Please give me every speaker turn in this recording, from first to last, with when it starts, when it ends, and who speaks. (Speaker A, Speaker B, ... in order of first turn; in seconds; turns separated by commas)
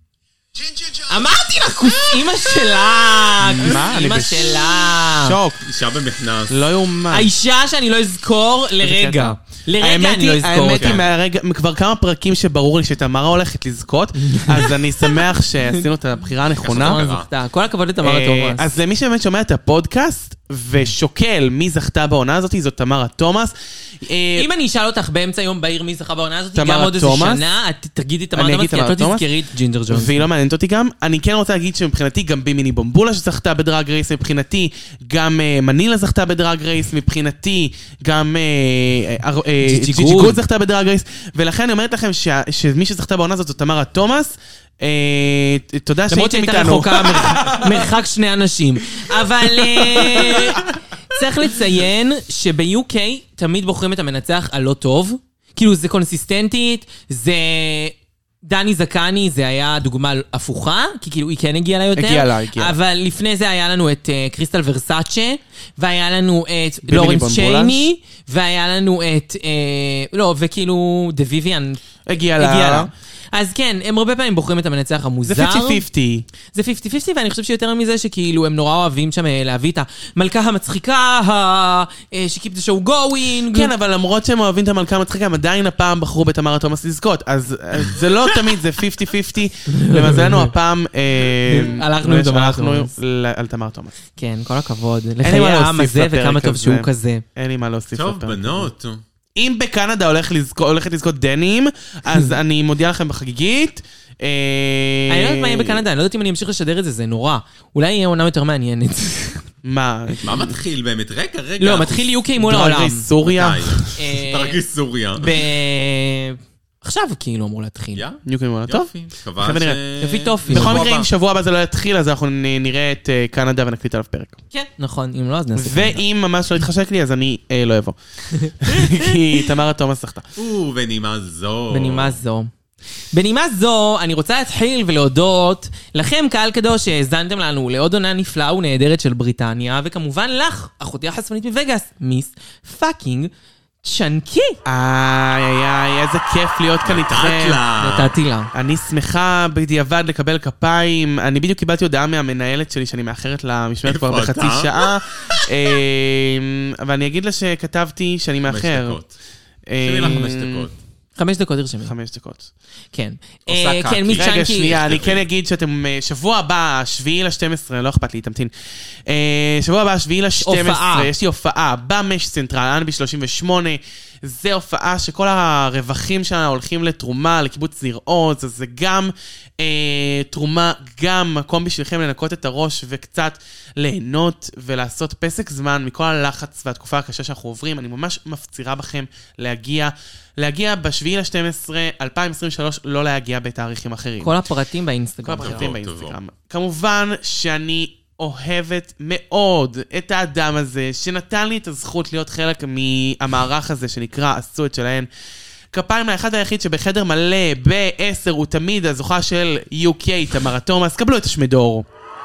Speaker A: 0.6-2.5, Speaker B: 1.1-5.3, Speaker C: 3.4-4.5, Speaker C: 5.2-5.6, Speaker D: 5.6-6.5, Speaker C: 6.5-7.3, Speaker B: 7.1-11.0, Speaker C: 8.8-17.0, Speaker D: 10.7-11.1, Speaker B: 14.2-15.8, Speaker D: 16.6-17.3, Speaker B: 16.7-18.7, Speaker C: 18.0-24.5, Speaker B: 24.4-30.3, Speaker C: 26.6-27.4, Speaker C: 28.4-29.3, Speaker C: 29.9-47.9, Speaker B: 39.6-40.4, Speaker B: 46.1-71.8, Speaker C: 49.4-50.6, Speaker C: 62.0-62.7, Speaker C: 66.8-67.9, Speaker C: 72.0-72.9, Speaker B: 72.3-75.8, Speaker C: 75.2-76.3, Speaker B: 76.5-83.7, Speaker C: 83.5-93.9, Speaker B: 89.7-90.5, Speaker B: 91.5-92.9, Speaker B: 94.2-97.2, Speaker C: 95.2-98.7, Speaker D: 97.9-99.0, Speaker C: 99.3-105.8, Speaker B: 105.1-109.4, Speaker C: 109.6-110.6, Speaker D: 110.2-112.1, Speaker B: 111.6-113.0, Speaker C: 112.4-114.0, Speaker D: 113.2-115.4, Speaker B: 113.9-114.6, Speaker B: 115.2-118.0, Speaker D: 118.0-121.1, Speaker C: 118.2-119.8, Speaker B: 120.0-120.9, Speaker C: 120.5-124.4, Speaker B: 124.5-126.0, Speaker C: 125.5-128.0, Speaker B: 128.3-129.2, Speaker C: 128.6-130.3, Speaker D: 130.3-132.2, Speaker B: 131.7-132.5, Speaker B: 133.1-143.3, Speaker B: 143.8-144.6, Speaker C: 144.6-147.6, Speaker D: 146.8-148.1, Speaker B: 147.8-148.5, Speaker C: 148.5-159.0, Speaker D: 153.8-154.9, Speaker D: 158.5-159.1, Speaker C: 159.7-160.7, Speaker D: 159.8-160.7, Speaker B: 161.2-161.9, Speaker C: 161.8-162.5, Speaker B: 162.9-164.8, Speaker D: 163.4-165.3, Speaker C: 164.1-168.5, Speaker C: 169.1-194.4, Speaker B: 170.4-171.1, Speaker B: 194.2-195.7, Speaker C: 195.2-205.1, Speaker D: 195.4-196.2, Speaker C: 205.7-211.8